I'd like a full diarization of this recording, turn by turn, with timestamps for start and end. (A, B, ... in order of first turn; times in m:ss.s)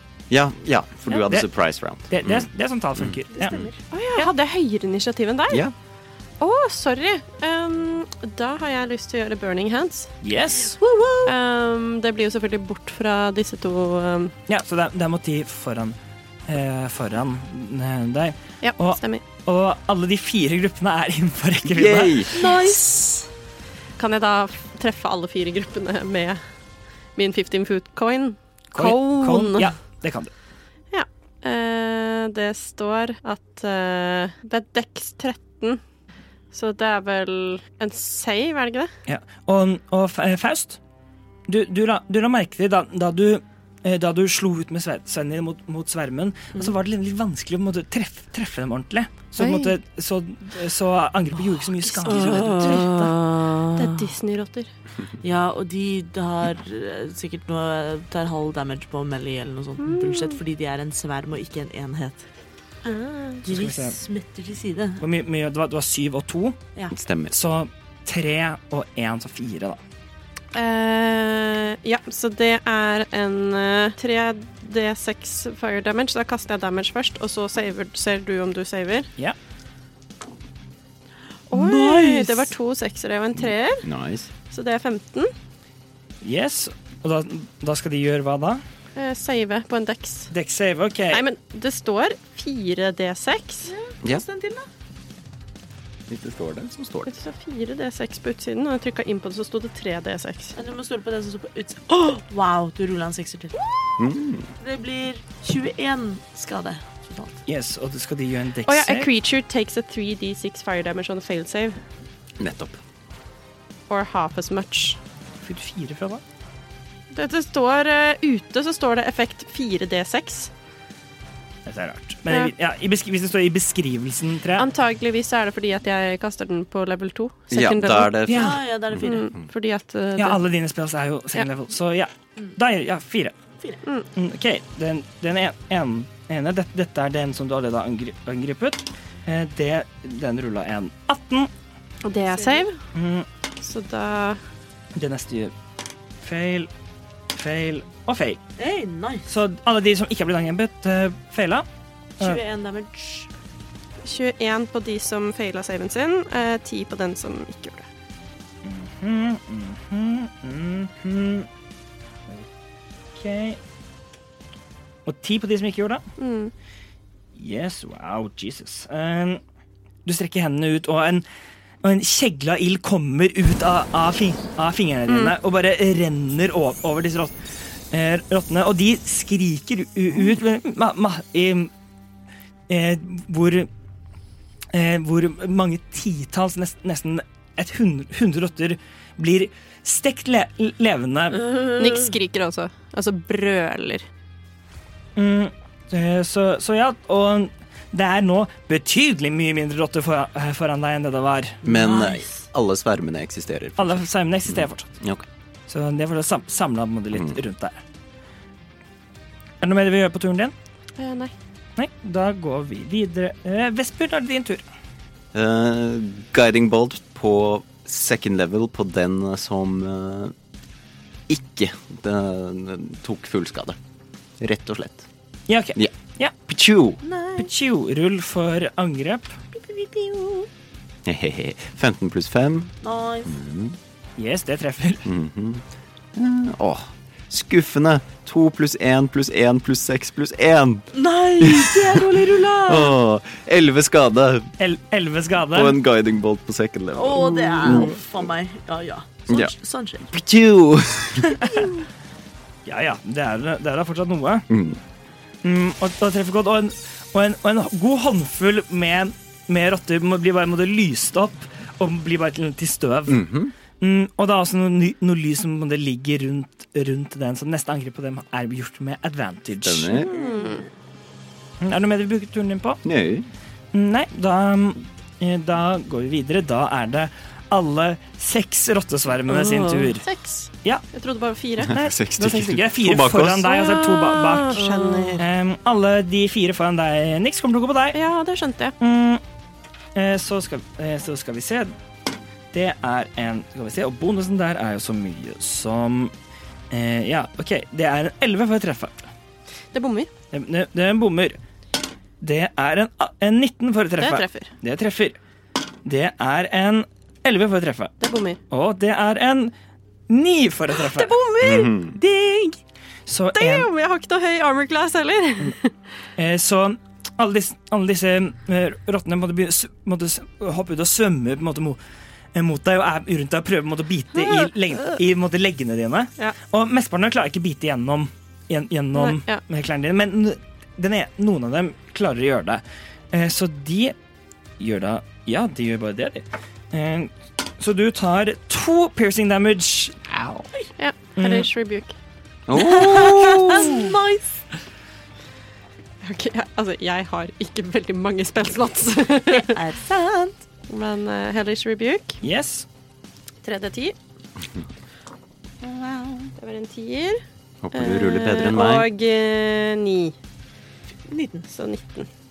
0:00.3-0:03.7 A
0:01.1-0:01.5 B
0:02.1-0:04.3 B
0:03.3-0:03.7 C
0:03.9-0:05.6 D
0:06.4-0:10.1 D
0:10.2-0:10.8 B
0:10.8-0:11.3 C
0:11.2-0:14.3 D
0:14.5-0:22.3 B
0:18.6-0:19.2 D
0:21.7-0:22.3 A
0:22.3-0:23.2 C
0:22.4-0:22.8 D
0:24.0-0:26.4 D
0:27.2-0:29.7 D
0:28.7-0:30.3 B
0:30.9-0:35.8 D
0:36.5-0:38.9 D
0:39.1-0:40.8 B
0:41.5-0:53.1 B
0:49.4-0:49.7 D
0:51.8-0:54.1 C
0:52.0-0:52.9 D
0:53.8-0:54.7 D
0:55.2-1:02.2 C
0:59.8-1:00.4 D
1:02.8-1:03.4 D
1:03.4-1:05.0 C
1:03.5-1:04.0 B
1:05.0-1:06.6 B
1:06.9-1:07.3 A
1:07.3-1:09.8 B
1:10.5-1:19.1 D
1:21.5-1:22.5 C
1:21.5-1:23.8 D
1:23.4-1:24.3 A
1:24.5-1:25.3 D
1:26.2-1:28.6 B
1:29.0-1:30.3 D
1:30.3-1:31.2 B
1:31.1-1:33.7 D
1:33.6-1:34.6 C
1:36.1-1:37.1 A
1:37.1-1:40.5 D
1:40.6-1:43.9 C
1:44.0-1:44.5 A
1:44.6-1:47.4 C
1:47.5-1:49.1 B
1:48.7-1:51.8 D
1:52.4-1:52.8 A
1:53.9-1:55.0 D
1:55.4-1:56.2 B
1:57.1-2:00.5 D
2:01.6-2:04.7 B
2:04.6-2:08.2 D
2:07.5-2:09.3 A
2:08.3-2:08.6 B
2:08.3-2:09.3 C
2:09.0-2:10.4 D
2:10.2-2:13.3 B
2:14.1-2:21.5 B
2:22.0-2:22.8 D
2:22.3-2:22.7 C
2:22.9-2:23.2 B
2:23.6-2:24.4 D
2:25.0-2:25.5 B
2:26.2-2:26.7 B
2:27.3-2:28.4 B
2:28.6-2:29.3 C
2:29.3-2:31.6 B
2:32.2-2:33.3 C
2:34.0-2:37.8 D
2:38.6-2:41.5 B
2:43.1-2:43.6 B
2:45.0-2:46.0 B
2:46.2-2:46.5 D
2:47.4-2:49.4 B
2:50.0-2:51.2 B
2:51.8-2:57.4 B
2:55.1-2:55.3 D
2:57.9-3:01.7 B
3:02.7-3:03.7 B
3:04.7-3:11.4 B
3:11.4-3:12.1 C
3:11.8-3:14.1 D
3:15.2-3:21.6 B
3:21.6-3:22.4 C
3:21.6-3:25.2 A
3:23.8-3:24.9 B
3:25.7-3:27.8 B
3:27.1-3:27.4 A
3:29.6-3:30.5 B
3:31.0-3:31.3 D
3:31.8-3:34.6 B
3:35.3-3:40.3 A
3:41.3-3:43.8 A
3:44.4-3:45.1 A
3:45.5-3:46.4 B
3:46.5-3:47.0 A
3:47.0-3:47.5 C
3:47.4-3:49.4 B
3:49.5-3:50.5 C
3:51.0-3:52.7 A
3:52.8-3:53.3 C
3:53.2-3:53.8 A
3:54.2-3:55.1 B
3:55.0-3:55.6 A
3:56.1-4:00.9 A
4:00.9-4:02.9 C
4:01.4-4:04.5 A
4:04.6-4:05.8 B
4:05.5-4:08.0 A
4:06.9-4:10.0 C
4:10.1-4:11.4 A
4:11.5-4:11.8 C
4:12.6-4:14.4 B
4:14.5-4:14.8 A
4:15.4-4:23.2 B
4:23.1-4:23.5 A
4:23.8-4:30.0 B
4:29.6-4:30.1 A
4:30.0-4:30.6 D
4:30.1-4:30.7 C
4:31.6-4:32.8 B
4:32.8-4:33.3 A
4:33.7-4:40.0 B
4:39.3-4:39.9 C
4:40.0-4:41.8 D
4:41.6-4:43.6 A
4:41.7-4:44.6 B
4:43.5-4:45.2 D
4:44.5-4:45.2 C
4:45.2-4:48.0 B
4:47.9-4:48.8 D
4:48.8-4:49.2 B
4:49.9-4:51.7 B
4:52.5-4:56.1 B
4:56.7-4:59.0 B
4:59.7-5:00.1 D
5:00.3-5:01.4 B
5:02.2-5:05.2 B
5:04.0-5:04.5 D
5:05.8-5:07.9 B
5:08.0-5:08.4 D
5:08.5-5:09.5 B
5:10.1-5:11.2 B
5:10.8-5:11.8 D
5:11.4-5:12.0 A
5:12.0-5:12.5 C
5:13.1-5:13.7 B
5:13.3-5:15.7 D
5:16.2-5:21.8 B
5:22.3-5:34.0 B
5:28.9-5:29.4 D
5:34.6-5:40.4 B
5:40.8-5:41.9 D
5:41.2-5:41.5 B
5:42.5-5:43.9 A
5:42.5-5:44.4 C
5:43.1-5:43.3 D
5:46.0-5:49.6 D
5:49.3-5:50.4 C
5:50.7-5:52.2 D
5:52.2-5:52.6 B
5:53.4-5:53.9 D
5:55.6-5:56.3 C
5:56.4-5:57.2 D
5:57.6-5:58.9 A
5:57.7-6:00.1 D
6:01.1-6:01.5 C
6:01.5-6:02.1 D